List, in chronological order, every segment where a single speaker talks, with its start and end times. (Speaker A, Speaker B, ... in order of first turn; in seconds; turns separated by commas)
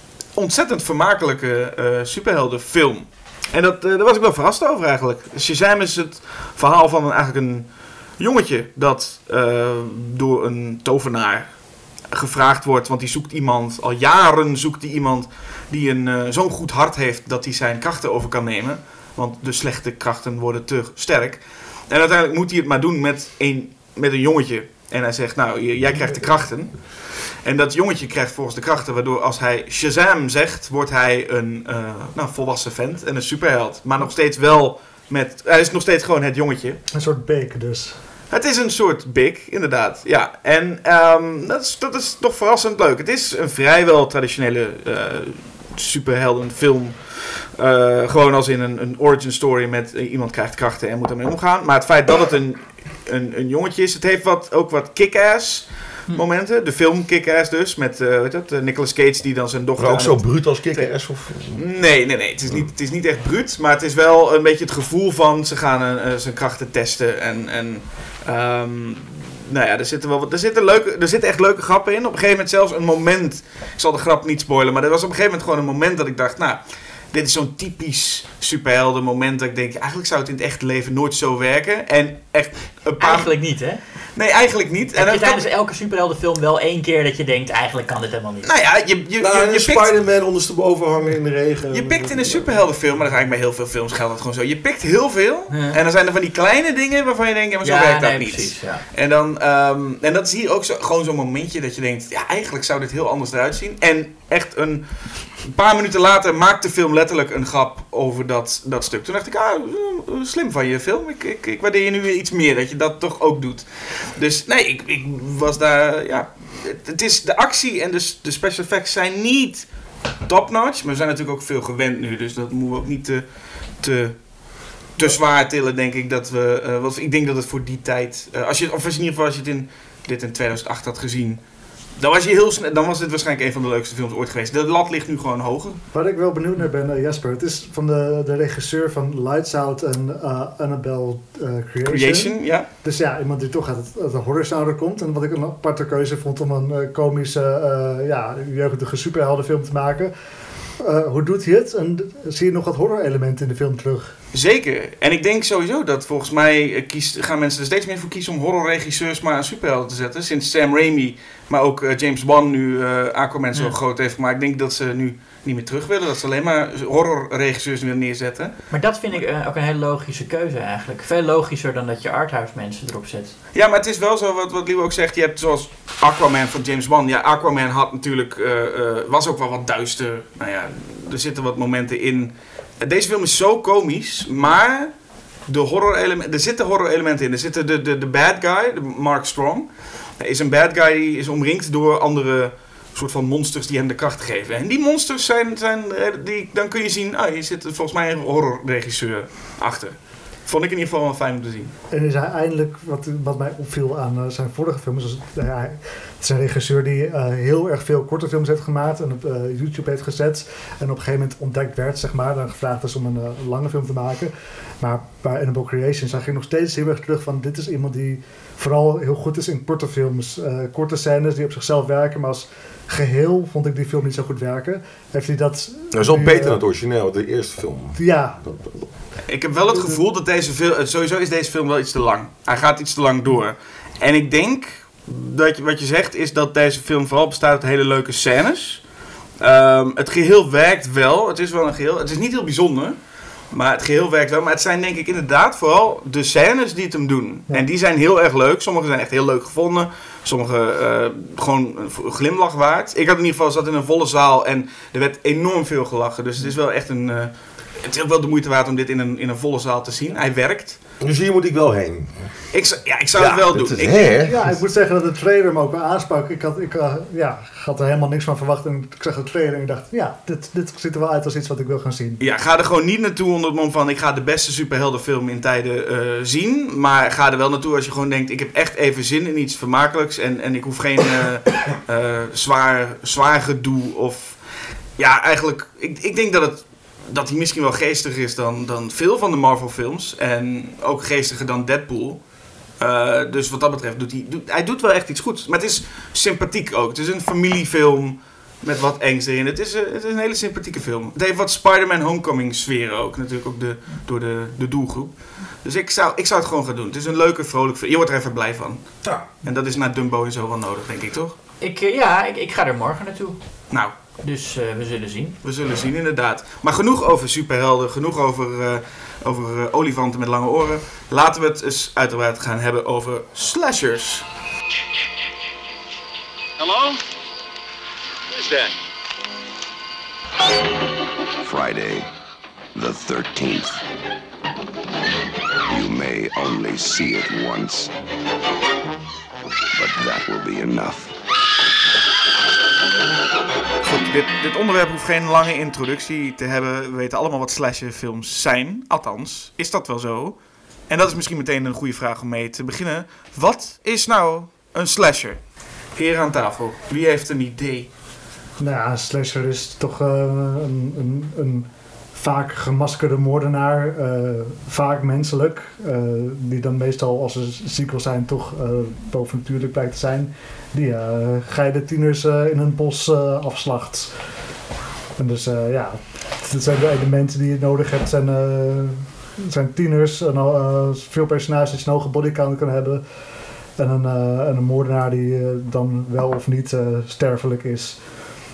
Speaker A: 0.3-36.8, Speaker B: 36.9-38.0, Speaker A: 38.3-85.5, Speaker C: 59.8-61.6, Speaker D: 83.0-83.8, Speaker D: 84.9-88.5, Speaker A: 88.4-89.9, Speaker C: 89.2-92.6, Speaker A: 91.7-131.4, Speaker D: 95.5-95.8, Speaker D: 97.6-98.8, Speaker A: 132.0-135.8, Speaker B: 135.9-150.1, Speaker A: 141.8-142.7, Speaker B: 150.8-154.1, Speaker A: 154.3-168.6, Speaker D: 168.7-173.4, Speaker A: 173.5-184.9, Speaker A: 185.5-201.7, Speaker B: 201.9-226.6, Speaker C: 225.9-228.9, Speaker B: 228.0-228.4, Speaker A: 229.3-238.8, Speaker B: 229.7-230.0, Speaker A: 239.4-243.0, Speaker A: 243.5-260.8, Speaker C: 261.0-262.3, Speaker A: 262.5-264.1, Speaker C: 263.1-264.6, Speaker B: 264.3-272.2, Speaker A: 272.2-284.4, Speaker A: 285.0-292.2, Speaker A: 292.8-311.4, Speaker D: 311.6-313.4, Speaker D: 314.2-315.4, Speaker A: 315.4-324.3, Speaker E: 326.6-327.0, Speaker E: 328.4-328.7, Speaker E: 331.4-332.1, Speaker E: 332.8-333.8, Speaker E: 335.7-337.9, Speaker E: 339.8-341.1, Speaker A: 343.8-357.9, Speaker B: 358.6-374.1, Speaker B: 375.1-383.0, Speaker B: 383.8-388.1